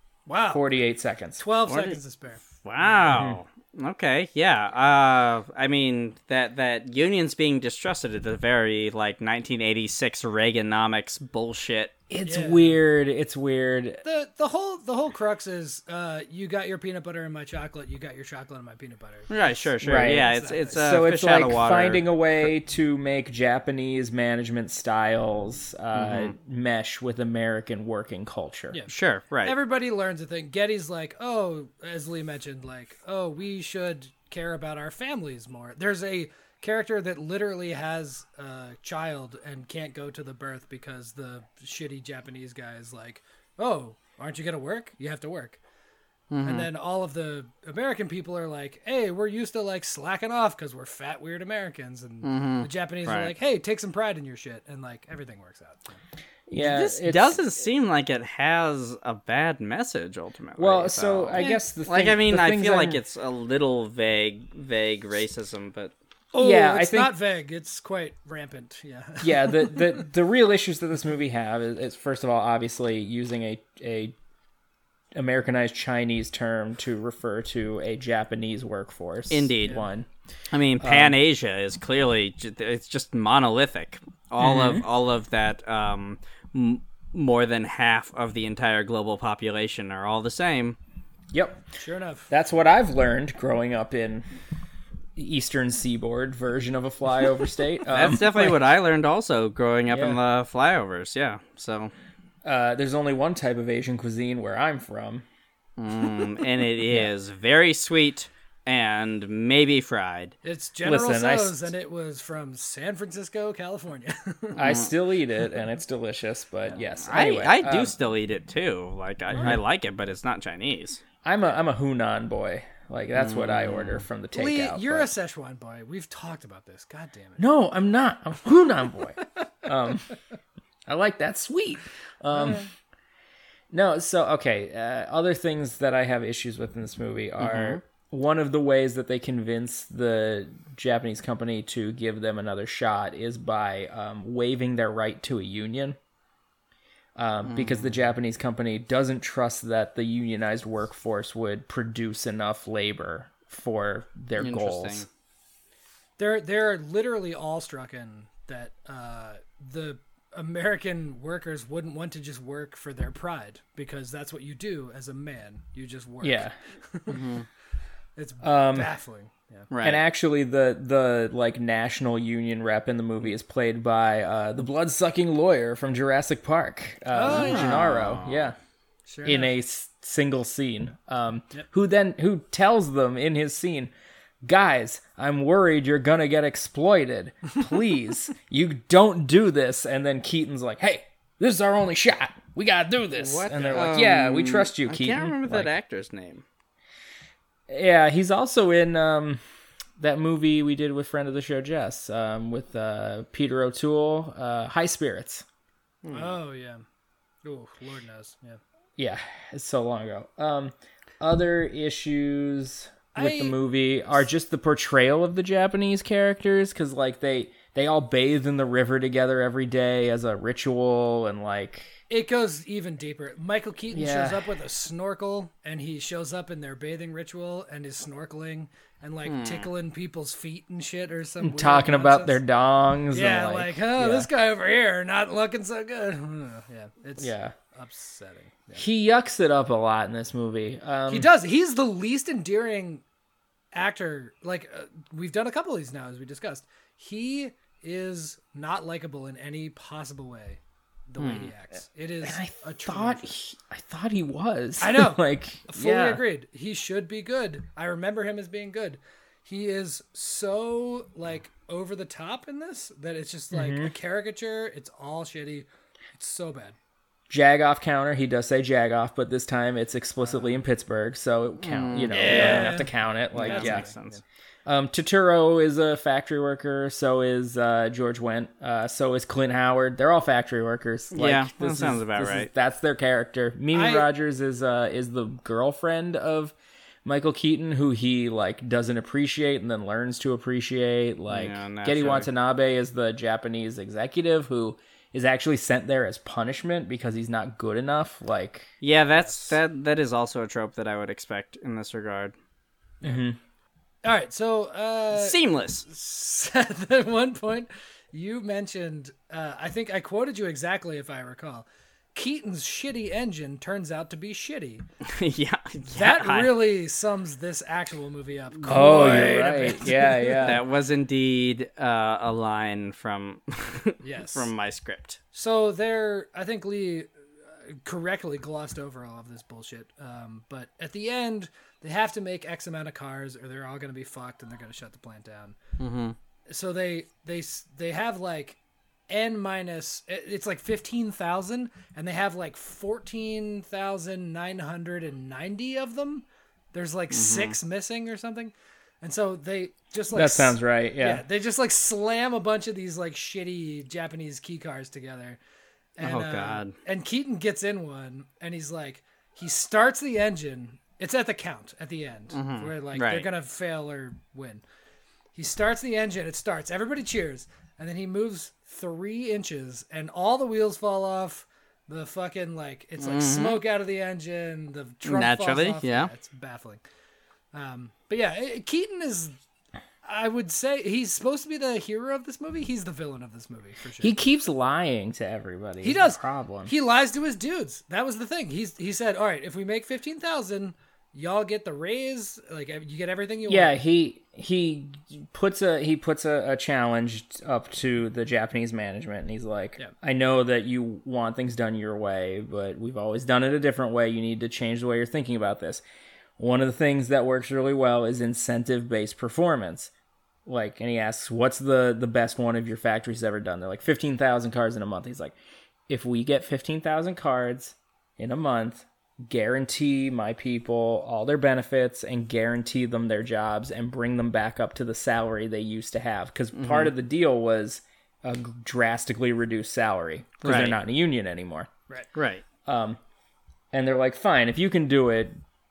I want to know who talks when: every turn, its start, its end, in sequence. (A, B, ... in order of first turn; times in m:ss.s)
0:00.3-0:00.7 A
0:00.5-0:01.4 B
0:01.4-0:03.1 A
0:01.7-0:02.0 C
0:02.6-0:11.9 C
0:03.1-0:03.4 B
0:12.1-0:14.0 B
0:12.3-0:12.8 A
0:14.0-0:21.0 A
0:19.3-0:22.1 C
0:19.8-0:28.8 B
0:26.0-0:26.3 C
0:28.7-0:45.6 A
0:28.9-0:29.6 C
0:46.3-0:46.7 C
0:46.4-0:56.0 A
0:52.2-0:53.4 C
0:56.5-0:57.4 B
0:56.6-1:05.9 C
1:00.6-1:03.0 B
1:01.4-1:01.6 A
1:06.3-1:10.1 A
1:06.4-1:07.1 B
1:09.2-1:14.2 B
1:15.2-1:20.1 B
1:19.3-1:19.8 C
1:20.5-1:30.8 C
1:20.8-1:21.2 B
1:24.4-1:24.8 B
1:31.3-1:31.6 B
1:31.8-1:32.3 A
1:32.3-1:34.2 B
1:35.2-1:38.6 B
1:37.9-1:41.9 C
1:39.9-1:40.2 B
1:42.4-1:45.2 B
1:45.8-1:50.3 C
1:50.4-1:54.8 A
1:50.8-1:51.7 B
1:54.6-1:57.9 B
1:54.6-1:54.9 C
1:57.1-2:01.0 C
2:01.2-2:05.1 B
2:03.2-2:04.0 C
2:04.3-2:07.4 A
2:07.4-2:10.1 B
2:10.9-2:12.6 B
2:12.3-2:12.7 A
2:13.7-2:26.0 B
2:17.4-2:17.8 C
2:27.2-2:35.1 B
2:27.4-2:28.1 C
2:34.4-2:35.1 C
2:36.2-2:47.3 A
2:46.2-2:46.6 B
2:47.1-2:47.5 C
2:48.2-2:49.7 A
2:48.4-2:48.9 B
2:49.7-2:50.0 C
2:49.8-2:58.6 B
2:57.1-2:57.9 A
2:57.3-2:58.5 C
2:59.1-2:59.5 A
2:59.2-3:03.9 B
3:04.4-3:15.7 B
3:13.2-3:16.4 C
3:17.7-3:19.4 B
3:20.0-3:25.4 B
3:26.0-3:26.4 C
3:26.1-3:26.8 A
3:27.4-3:28.6 A
3:29.0-3:42.0 B
3:33.2-3:33.6 A
3:42.1-3:52.4 A
3:43.9-3:44.4 B
3:49.2-3:49.7 C
3:51.4-3:54.3 B
3:53.1-3:58.8 A
3:57.2-3:57.6 B
3:58.8-4:01.3 B
4:01.1-4:03.0 A
4:03.7-4:13.3 A
4:11.2-4:11.5 C
4:12.2-4:16.2 B
4:14.8-4:26.8 A
4:23.5-4:23.9 B
4:27.3-4:33.9 B
4:30.2-4:30.6 A
4:31.6-4:32.8 C
4:32.1-4:34.1 A
4:33.4-4:34.2 C
4:34.7-4:46.5 B
4:41.1-4:42.5 C
4:43.7-4:44.1 A
4:47.0-4:58.7 B
4:51.3-4:52.3 C
4:58.8-5:02.4 C
5:03.0-5:03.4 B
5:04.0-5:14.8 A
5:05.1-5:05.8 C
5:15.0-5:16.6 C
5:15.9-5:20.5 A
5:18.6-5:19.5 C
5:18.7-5:20.6 B
5:20.4-5:25.2 C
5:24.0-5:24.5 A
5:25.3-5:27.1 A
5:27.6-5:35.6 A
5:35.8-5:36.2 C
5:36.5-5:38.6 A
5:39.1-5:55.4 A
5:47.1-5:47.6 C
5:50.1-5:51.2 B
5:56.0-6:04.6 A
5:56.0-5:56.7 C
6:02.3-6:03.3 C
6:05.3-6:16.8 A
6:13.0-6:13.6 C
6:15.0-6:16.1 C
6:17.5-6:19.4 A
6:20.0-6:24.1 A
6:24.0-6:26.7 B
6:25.8-6:33.7 A
6:33.5-6:45.8 B
6:46.4-6:49.9 B
6:50.5-6:55.3 B
6:55.9-7:11.7 B
7:06.5-7:06.9 C
7:10.4-7:10.8 C
7:12.2-7:12.4 C
7:12.7-7:13.0 B
7:13.7-7:15.4 B